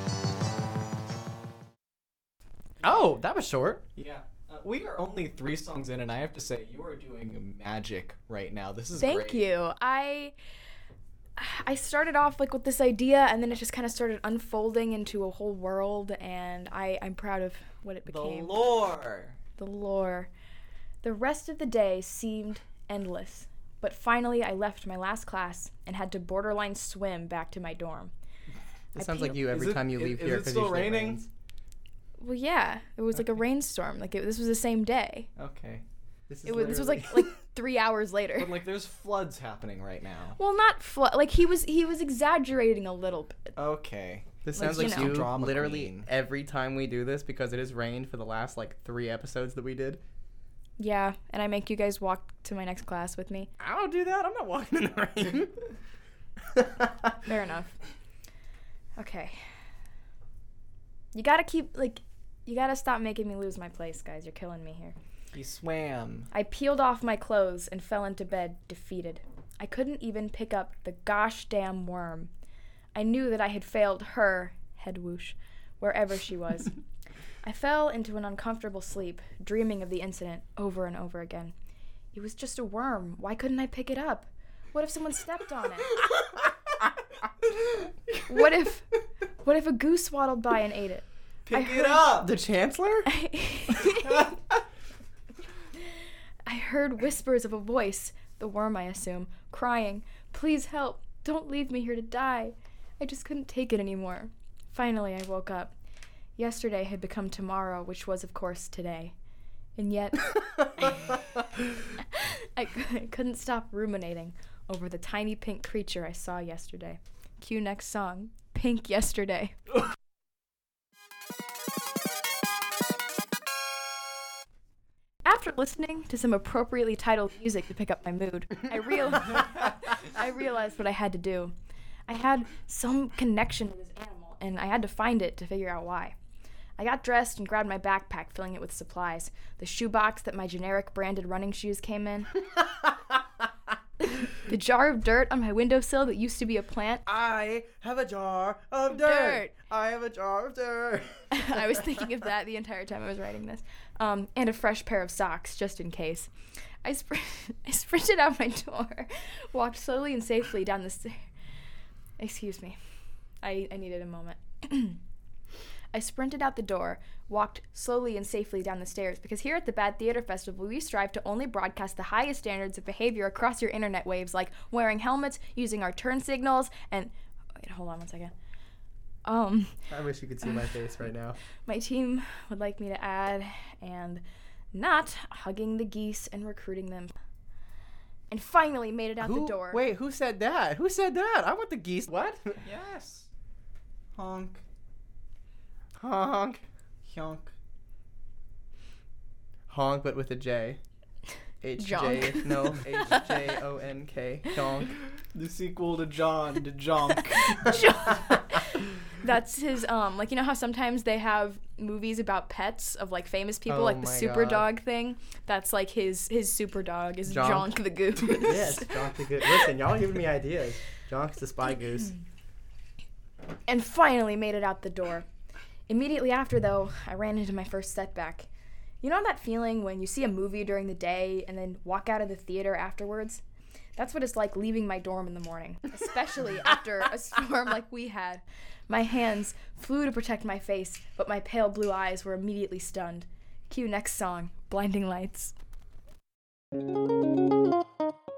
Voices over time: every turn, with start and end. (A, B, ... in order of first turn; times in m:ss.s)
0:02.8-0:03.8 A
0:04.0-0:09.4 B
0:09.0-0:10.4 C
0:11.4-0:18.6 C
0:18.1-0:19.4 B
0:19.6-0:20.3 C
0:21.0-0:28.1 C
0:28.9-0:29.4 C
0:29.0-0:31.3 A
0:29.3-0:31.2 B
0:32.2-0:35.3 C
0:35.4-0:35.8 B
0:36.3-0:37.3 A
0:36.4-0:38.5 C
0:38.4-0:40.4 B
0:40.4-0:43.6 C
0:43.6-0:46.1 B
0:44.4-0:50.0 A
0:44.6-0:45.2 C
0:50.8-0:53.5 C
0:53.6-0:55.6 A
0:56.5-0:57.2 A
0:57.2-0:57.8 C
0:59.0-0:59.6 C
1:01.1-1:05.0 C
1:05.3-1:06.3 B
1:06.3-1:12.3 C
1:13.0-1:16.7 C
1:17.4-1:21.5 C
1:22.1-1:26.0 C
1:27.6-1:28.2 B
1:28.3-1:28.9 C
1:29.4-1:32.0 C
1:31.5-1:32.3 B
1:32.2-1:33.1 A
1:33.1-1:34.3 C
1:35.8-1:45.7 C
1:46.4-1:49.2 C
1:49.8-1:51.2 C
1:52.0-1:59.6 C
2:05.2-2:11.5 C
2:12.1-2:16.2 C
2:16.8-2:22.3 C
2:22.4-2:23.5 A
2:24.0-2:27.0 C
2:27.1-2:31.8 A
2:28.9-2:29.5 C
2:31.3-2:41.3 C
2:42.2-2:42.8 C
2:43.4-2:45.0 C
2:45.9-2:58.3 C
2:59.2-2:59.9 C
2:59.9-3:01.4 A
3:01.6-3:04.2 C
3:04.7-3:07.1 C
3:08.3-3:09.8 C
3:09.2-3:12.6 A
3:12.6-3:13.3 B
3:14.1-3:14.6 B
3:16.0-3:16.6 A
3:17.1-3:17.5 B
3:19.7-3:20.8 A
3:21.6-3:25.0 A
3:21.8-3:23.0 C
3:22.8-3:23.4 B
3:25.3-3:27.9 B
3:27.5-3:39.7 C
3:33.7-3:34.6 A
3:37.3-3:37.7 A
3:38.4-3:42.1 A
3:43.7-3:45.3 C
3:45.9-3:48.5 C
3:49.0-3:53.4 C
3:54.0-4:05.5 C